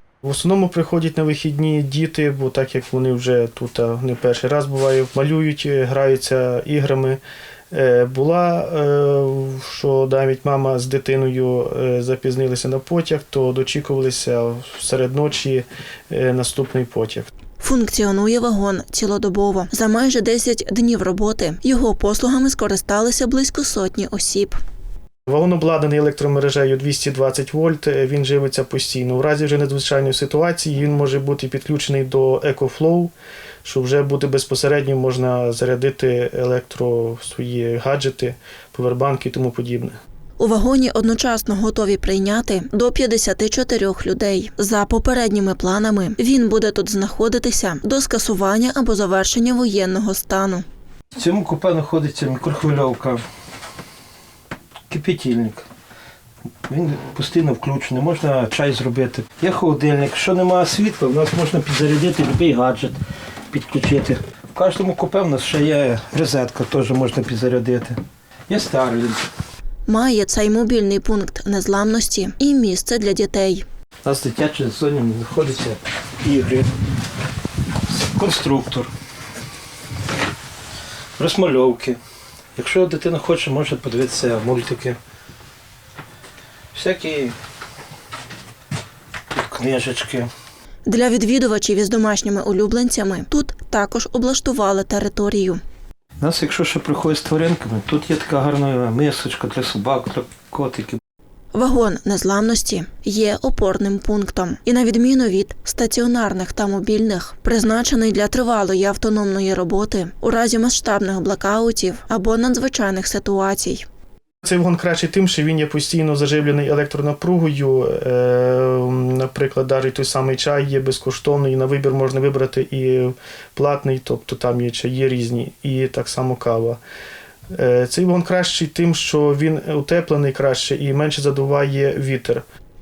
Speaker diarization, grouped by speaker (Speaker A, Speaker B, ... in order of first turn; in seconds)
Speaker A: 0.2-17.3, 25.3-33.1, 33.6-40.0, 114.4-126.8, 127.5-132.5
Speaker B: 17.6-24.6, 40.4-50.6, 69.8-73.7, 90.8-95.6, 101.5-113.9
Speaker C: 51.2-53.2, 54.9-55.7, 56.7-63.0, 63.5-69.2, 74.0-76.7, 77.9-78.9, 81.2-82.0, 82.5-85.0, 86.7-87.3, 89.3-90.3, 96.2-101.0